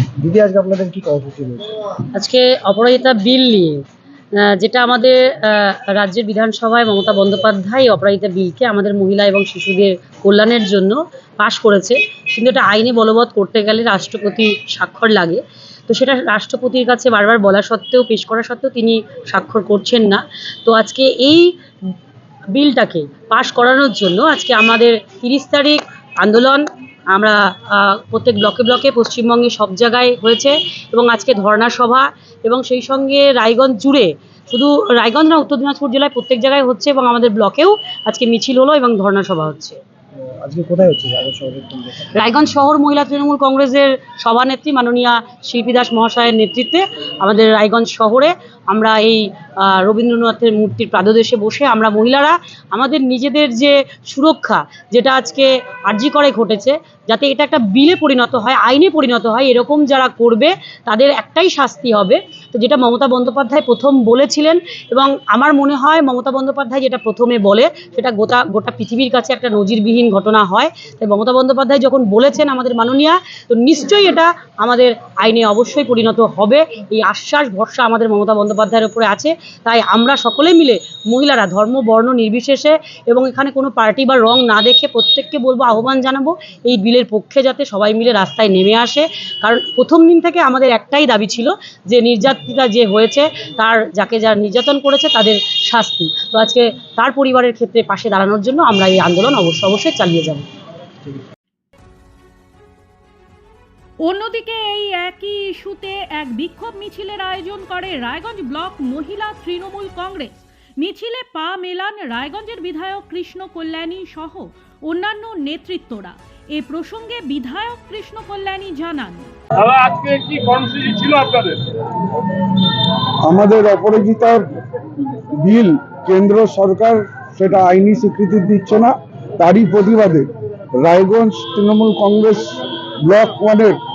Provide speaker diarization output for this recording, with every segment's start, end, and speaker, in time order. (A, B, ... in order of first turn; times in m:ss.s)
0:00.2-0:01.6 A
0:02.1-0:03.8 B
0:04.4-0:21.4 B
0:22.6-0:39.8 B
0:40.4-0:42.0 A
0:42.1-1:40.4 B
1:44.0-1:59.3 C
1:59.6-2:01.6 D
2:03.2-2:04.4 E
2:05.3-2:10.3 E
2:10.8-2:13.8 E